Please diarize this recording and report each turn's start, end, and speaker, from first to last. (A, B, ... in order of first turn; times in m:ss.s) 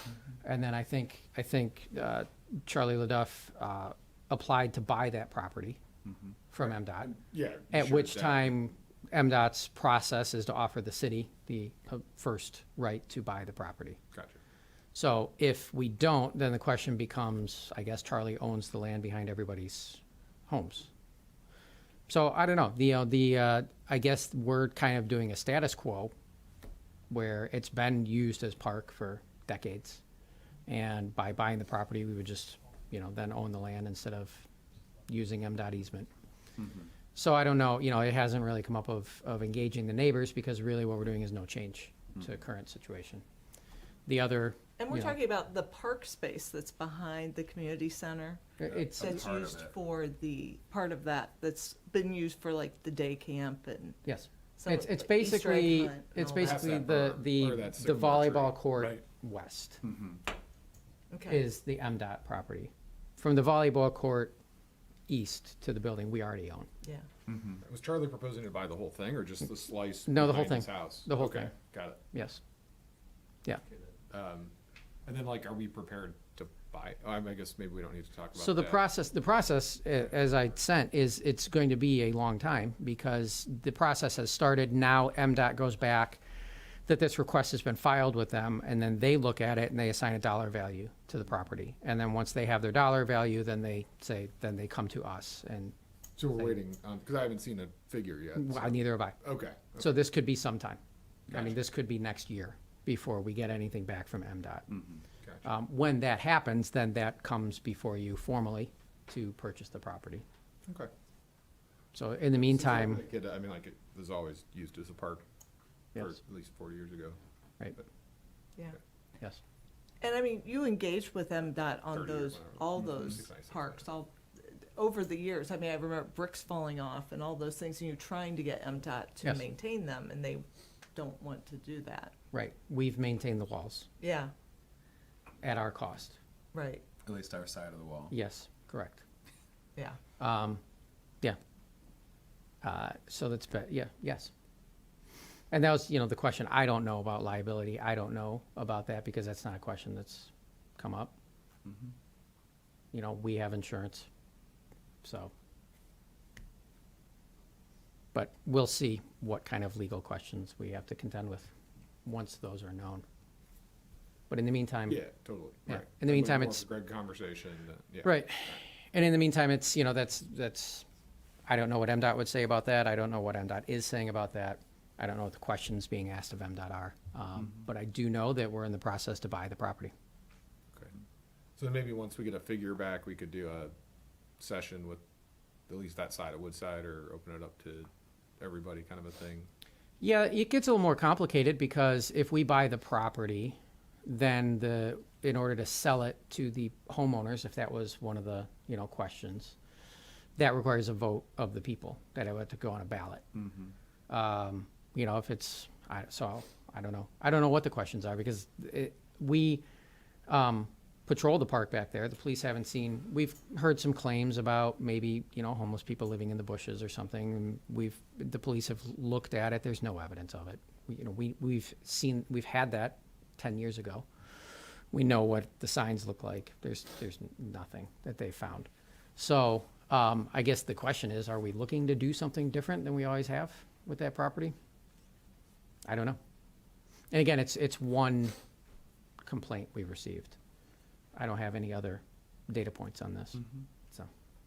0:00.4-0:05.8 A
0:06.1-0:06.3 B
0:06.5-0:07.1 A
0:07.0-0:08.5 C
0:07.7-0:14.0 A
0:14.1-0:14.4 C
0:14.9-0:20.9 A
0:22.1-0:26.1 A
0:27.1-0:30.0 A
0:30.7-0:34.5 A
0:35.1-0:36.1 A
0:36.6-0:36.9 B
0:37.1-0:43.2 A
0:44.0-0:45.1 A
0:44.8-0:54.0 D
0:48.6-0:49.2 A
0:48.6-0:49.5 C
0:49.0-0:49.7 B
0:54.0-0:59.8 A
0:54.6-0:56.8 D
0:56.3-0:58.6 C
0:59.8-1:00.2 B
1:01.1-1:01.4 D
1:01.3-1:04.4 A
1:05.1-1:06.7 A
1:07.3-1:07.6 B
1:07.6-1:12.0 C
1:10.1-1:11.5 A
1:12.1-1:12.4 A
1:14.1-1:14.5 C
1:15.0-1:18.8 C
1:18.4-1:26.2 A
1:26.8-1:35.7 A
1:36.2-1:39.9 C
1:38.4-1:39.2 A
1:39.8-1:40.8 A
1:41.3-1:44.8 A
1:45.4-1:50.2 A
1:51.9-1:53.0 A
1:52.4-1:55.2 C
1:55.9-1:57.2 C
2:00.0-2:12.1 D
2:01.9-2:03.8 C
2:12.3-2:13.9 A
2:14.0-2:14.3 D
2:15.4-2:16.2 A
2:16.5-2:16.8 D
2:17.0-2:18.1 B
2:18.1-2:19.0 A
2:20.2-2:20.6 A
2:22.6-2:24.3 A
2:25.5-2:31.1 A
2:31.6-2:31.9 B
2:32.9-2:34.1 A
2:35.0-2:35.3 A
2:38.1-2:41.5 A
2:42.0-2:43.0 A
2:44.3-2:45.0 A
2:44.9-2:48.5 C
2:45.7-2:46.6 A
2:48.0-2:50.8 A
2:51.5-2:59.9 A
3:01.6-3:03.7 C
3:04.4-3:05.0 C
3:05.7-3:09.5 C
3:10.0-3:19.6 A
3:20.4-3:23.2 A
3:24.1-3:29.6 A
3:30.3-3:44.1 A
3:44.9-3:54.5 A
3:55.8-3:56.2 A
3:57.1-3:58.3 A
3:59.2-4:00.4 A
4:01.1-4:04.1 A